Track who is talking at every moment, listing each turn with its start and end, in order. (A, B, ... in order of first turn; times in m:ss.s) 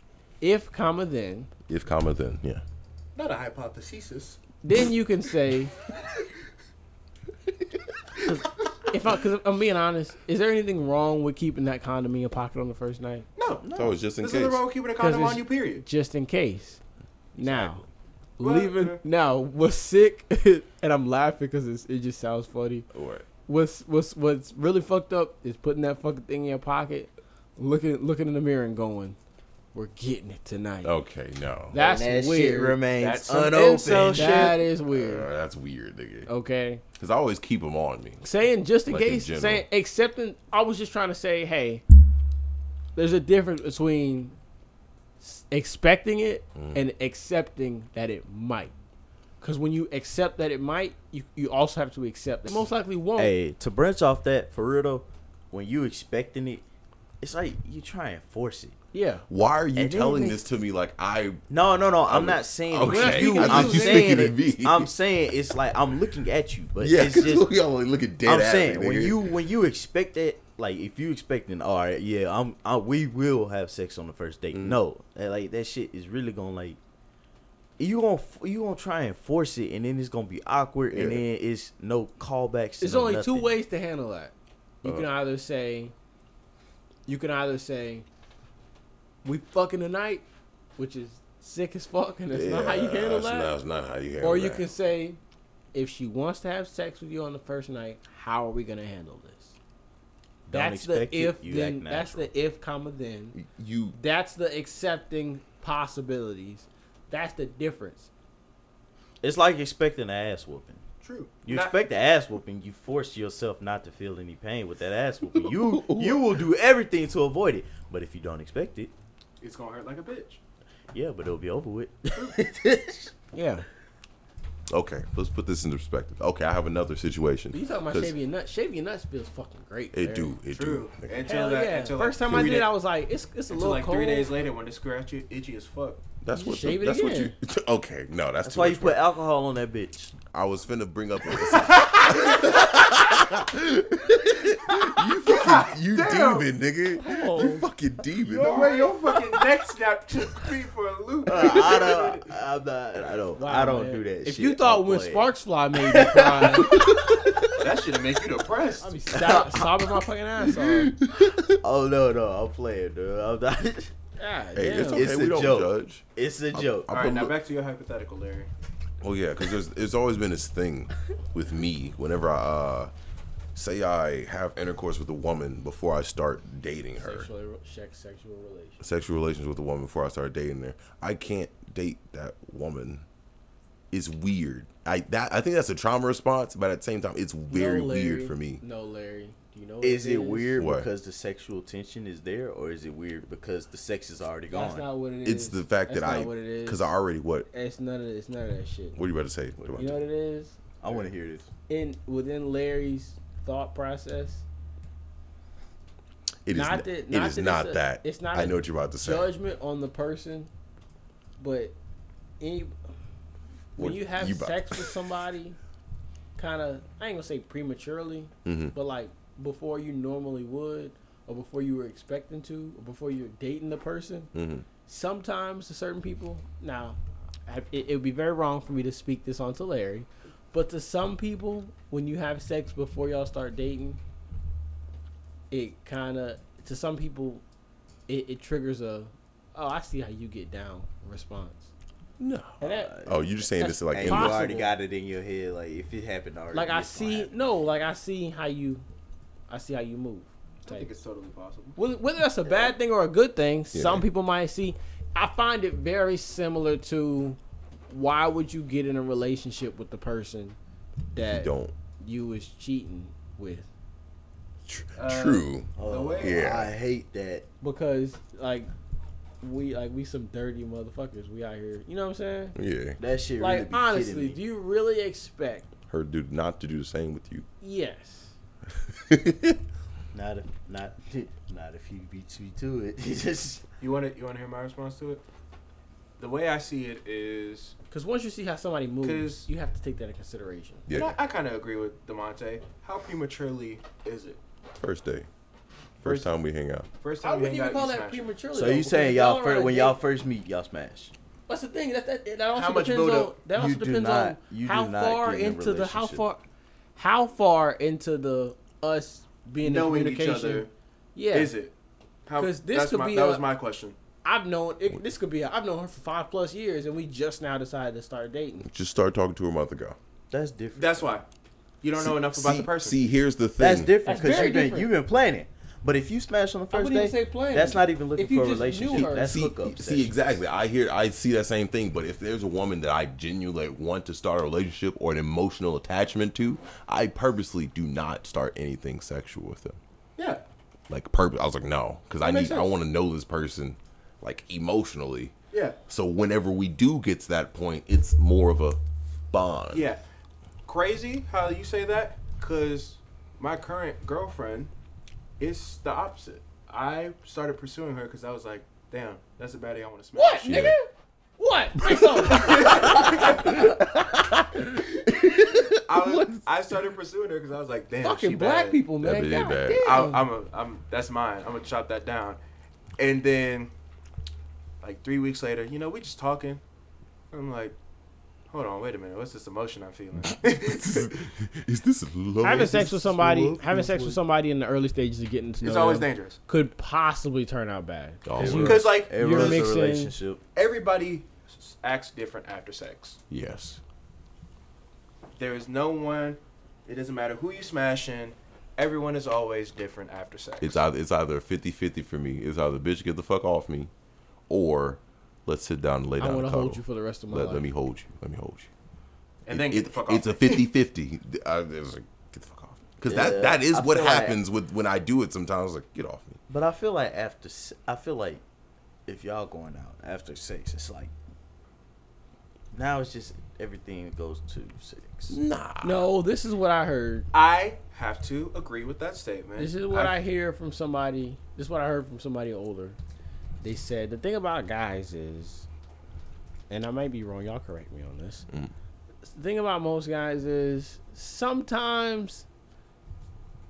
0:00.4-0:01.5 A
0:01.7-0:02.6 B
0:03.2-0:04.4 C
0:04.6-0:05.7 A
0:08.2-0:13.3 A
0:13.4-0:13.6 C
0:13.6-0:14.0 D
0:13.7-0:14.6 B
0:14.2-0:15.8 C
0:15.0-0:16.8 A
0:17.4-0:17.8 A
0:17.4-0:17.7 D
0:18.4-0:22.9 A
0:18.4-0:19.0 C
0:22.9-0:23.3 B
0:23.5-0:29.2 A
0:29.7-0:30.9 A
0:30.8-0:31.8 B
0:31.7-0:32.8 A
0:31.7-0:34.6 D
0:33.0-0:34.5 C
0:34.1-0:35.3 A
0:34.9-0:36.3 B
0:36.3-0:36.8 A
0:37.0-0:38.2 B
0:38.2-0:41.8 A
0:38.9-0:39.6 B
0:42.9-0:44.3 A
0:45.2-0:48.7 A
0:46.6-0:46.8 B
0:49.4-0:53.3 A
0:53.2-0:56.6 D
0:57.2-0:58.8 D
0:58.9-0:59.3 A
0:59.3-1:01.4 B
0:59.8-1:00.3 D
0:59.9-1:00.4 A
1:01.5-1:07.5 D
1:02.0-1:04.9 B
1:02.8-1:04.3 A
1:06.8-1:09.3 B
1:08.2-1:16.8 D
1:14.5-1:14.8 B
1:17.8-1:23.6 D
1:20.9-1:21.2 B
1:22.8-1:24.3 A
1:24.8-1:25.9 A
1:24.8-1:25.1 B
1:27.1-1:28.0 A
1:29.2-1:30.2 A
1:30.8-1:33.6 A
1:32.3-1:34.6 B
1:34.2-1:35.2 A
1:35.7-1:39.6 A
1:40.4-1:42.3 D
1:40.5-1:43.4 A
1:43.3-1:44.0 B
1:43.9-1:48.1 A
1:49.2-1:50.8 D
1:51.0-1:51.8 C
1:51.4-1:58.9 D
1:55.3-1:56.3 B
1:59.4-2:00.4 C
2:00.9-2:03.1 D
2:03.3-2:03.6 A
2:04.7-2:08.1 B
2:07.5-2:10.3 A
2:09.9-2:11.3 B
2:10.5-2:12.7 C
2:11.3-2:14.3 A
2:12.3-2:12.6 B
2:13.5-2:16.0 C
2:16.2-2:19.0 B
2:16.3-2:17.3 A
2:18.4-2:20.1 D
2:20.3-2:29.0 B
2:21.5-2:22.6 C
2:24.7-2:26.5 C
2:27.0-2:27.7 A
2:28.2-2:32.3 C
2:31.3-2:35.3 D
2:33.4-2:36.9 A
2:35.9-2:37.5 D
2:36.6-2:37.1 B
2:37.6-2:39.0 C
2:38.8-2:40.9 A
2:39.1-2:39.9 D
2:41.0-2:41.6 B
2:41.6-2:43.9 D
2:44.2-2:45.1 A
2:44.6-2:47.3 B
2:44.9-2:46.9 D
2:46.9-2:48.5 C
2:49.0-2:52.9 B
2:53.6-2:57.3 B
2:57.0-2:58.8 A
2:58.8-3:03.0 B
3:03.9-3:08.6 B
3:07.5-3:10.5 A
3:09.8-3:14.9 D
3:10.6-3:10.9 B
3:14.5-3:16.9 A
3:15.2-3:17.5 B
3:17.5-3:19.0 A
3:18.9-3:20.0 B
3:19.6-3:20.0 D
3:19.8-3:20.6 A
3:20.8-3:21.5 D
3:21.7-3:24.4 A
3:26.4-3:29.3 B
3:26.5-3:30.5 A
3:31.4-3:31.7 A
3:32.4-3:32.7 A
3:33.8-3:35.6 A
3:33.8-3:34.9 B
3:36.4-3:44.3 A
3:38.4-3:38.7 B
3:44.3-3:44.6 B
3:44.9-3:54.0 A
3:55.5-3:57.4 A
3:58.1-4:01.7 A
4:02.2-4:04.4 B
4:02.6-4:04.7 A
4:02.6-4:03.2 D
4:03.9-4:07.3 D
4:06.5-4:08.8 A
4:09.5-4:10.9 A
4:10.6-4:11.8 C
4:11.8-4:17.4 A
4:13.7-4:14.0 B
4:17.9-4:20.6 A
4:21.1-4:23.7 A
4:21.2-4:21.7 B
4:24.6-4:26.7 B
4:25.0-4:26.4 C
4:25.8-4:27.5 D
4:27.6-4:28.7 A
4:29.4-4:32.6 A
4:32.6-4:33.0 B
4:33.0-4:34.4 D
4:33.4-4:35.7 A
4:35.9-4:37.4 B
4:37.6-4:38.3 A
4:38.8-4:39.6 B
4:40.1-4:43.6 D
4:43.8-4:45.2 C
4:46.2-4:47.7 C
4:47.9-4:50.9 A
4:49.0-4:49.5 C
4:50.9-4:51.2 B
4:50.9-4:54.4 C
4:54.8-4:55.3 B
4:56.0-4:56.9 B
4:56.0-4:56.3 C
4:57.0-4:58.3 C
4:57.2-5:00.0 A
4:58.5-5:01.1 D
5:01.5-5:06.4 A
5:02.6-5:03.3 C
5:03.5-5:06.2 D
5:07.0-5:11.5 A
5:09.6-5:10.7 C
5:11.3-5:11.7 C
5:12.3-5:14.0 C
5:12.4-5:13.4 A
5:14.2-5:18.7 A
5:18.6-5:20.0 B
5:20.3-5:21.1 D
5:20.8-5:21.2 C
5:21.8-5:23.0 C
5:22.0-5:23.9 B
5:23.6-5:30.1 D
5:24.0-5:24.9 A
5:26.7-5:29.4 A
5:28.9-5:39.8 B
5:40.2-5:40.4 C
5:40.9-5:45.3 B
5:42.2-5:42.7 C
5:45.5-5:45.8 C
5:45.9-5:48.8 B
5:49.3-5:49.9 B
5:49.7-5:50.0 C
5:50.6-5:54.7 C
5:55.4-6:00.6 C
6:00.2-6:00.9 A
6:00.4-6:00.8 B
6:01.4-6:03.6 A
6:02.3-6:06.4 B
6:02.3-6:03.6 C
6:05.7-6:08.8 C
6:08.0-6:10.3 A
6:09.0-6:10.0 B
6:09.8-6:12.4 C
6:13.0-6:13.7 C
6:14.8-6:16.6 C
6:17.3-6:17.8 C
6:18.5-6:21.1 C
6:20.3-6:23.0 B
6:22.4-6:30.1 A
6:22.6-6:24.2 D
6:25.6-6:26.4 C
6:28.2-6:28.9 B
6:28.4-6:30.4 D
6:28.4-6:29.7 C
6:30.6-6:33.2 C
6:33.3-6:33.8 B
6:35.4-6:40.8 C
6:40.6-6:43.9 B
6:44.5-6:48.7 B
6:46.2-6:47.7 A
6:49.4-6:50.7 C
6:49.5-6:56.4 B
6:53.1-6:54.4 D
6:56.5-6:58.4 D
6:59.0-7:01.1 D
7:02.7-7:05.4 D
7:05.3-7:06.0 B
7:05.8-7:07.3 A
7:07.3-7:10.2 C
7:09.6-7:13.0 A
7:13.6-7:15.7 A
7:16.7-7:18.4 A
7:19.2-7:22.4 A